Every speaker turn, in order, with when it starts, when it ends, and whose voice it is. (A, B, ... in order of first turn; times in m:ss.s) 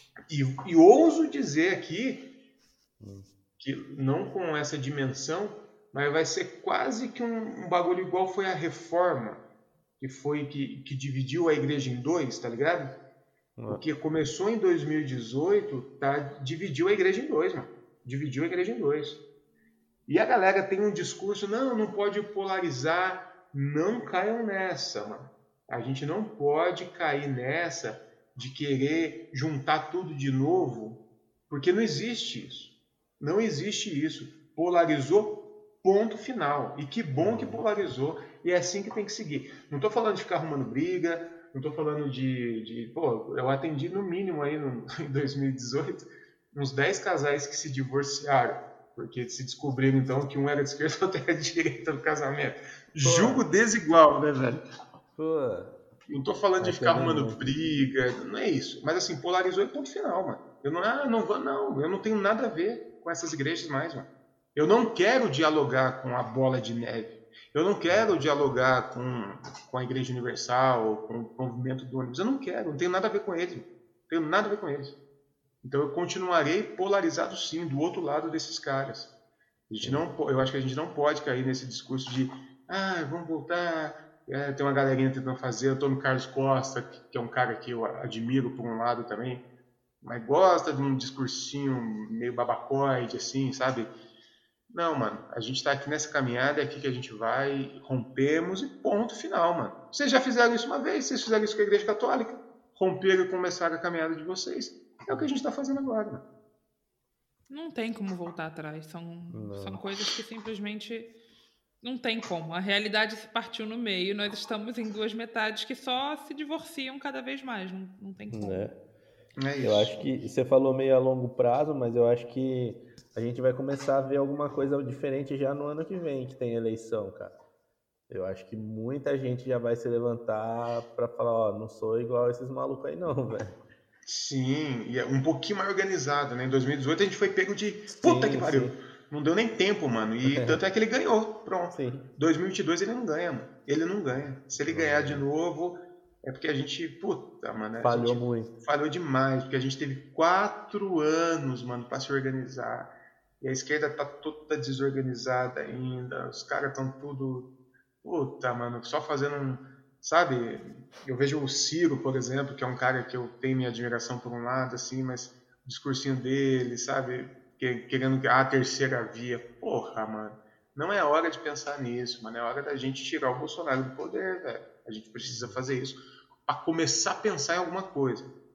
0:00.3-0:02.3 A
0:03.0-0:03.3 B
0:03.6-0:09.4 A
0:10.0-0:13.0 A
0:13.6-0:13.8 B
0:13.7-0:19.2 A
0:20.1-0:54.6 A
0:37.2-0:37.6 B
0:53.0-0:53.4 B
0:55.2-0:55.7 B
0:56.1-1:15.0 A
0:56.6-0:57.4 B
1:15.6-1:19.1 A
1:19.7-1:29.4 A
1:30.0-1:33.9 A
1:34.7-1:46.2 A
1:47.5-1:51.1 C
1:49.3-1:49.8 B
1:51.8-1:58.6 C
1:58.3-1:58.7 B
1:59.4-1:59.9 A
1:59.6-2:07.3 B
2:08.1-2:13.6 B
2:14.1-2:37.5 A
2:17.9-2:18.8 B
2:20.3-2:20.6 B
2:21.7-2:22.1 B
2:24.6-2:25.2 B
2:27.8-2:28.5 B
2:38.0-2:58.3 A
2:55.3-2:55.6 B